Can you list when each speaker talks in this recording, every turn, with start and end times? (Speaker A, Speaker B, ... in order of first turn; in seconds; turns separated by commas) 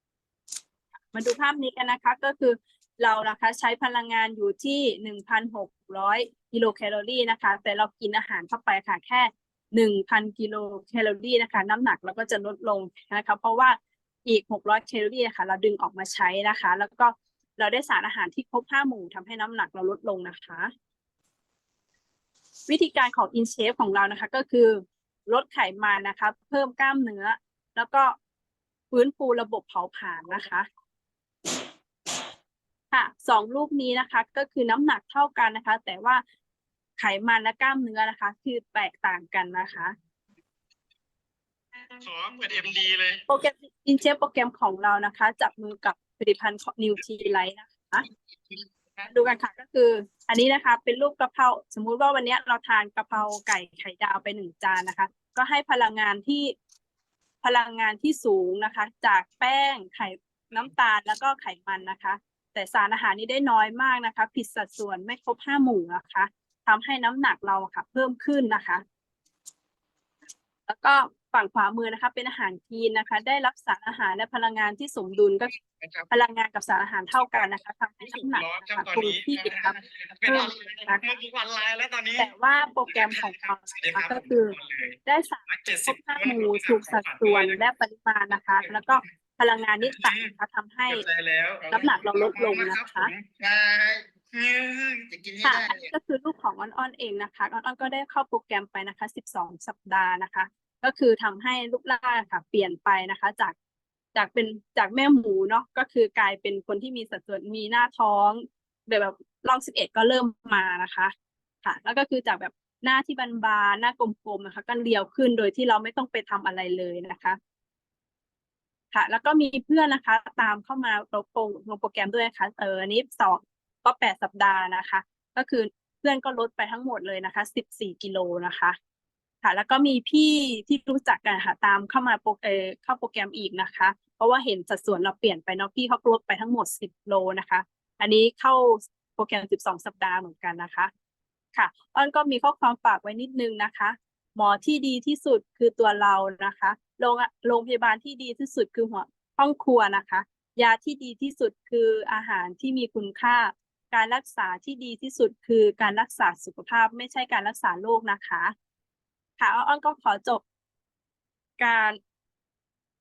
Speaker A: 1.1-20.7, Speaker A: 22.7-28.1, Speaker A: 28.9-30.7, Speaker A: 32.9-36.2, Speaker A: 37.0-39.9, Speaker B: 42.0-43.2, Speaker A: 43.3-48.0, Speaker B: 48.5-49.1, Speaker A: 49.0-56.5, Speaker A: 57.4-68.8, Speaker A: 70.7-75.5, Speaker B: 75.8-76.1, Speaker A: 76.1-81.2, Speaker B: 78.0-82.3, Speaker A: 82.2-91.0, Speaker B: 82.8-87.6, Speaker B: 88.6-89.0, Speaker B: 89.8-90.3, Speaker B: 90.9-95.9, Speaker A: 91.7-93.1, Speaker A: 95.4-103.5, Speaker A: 104.1-117.4, Speaker A: 118.9-128.8, Speaker A: 129.4-140.9, Speaker A: 141.5-158.5, Speaker A: 159.4-160.4, Speaker A: 161.6-162.0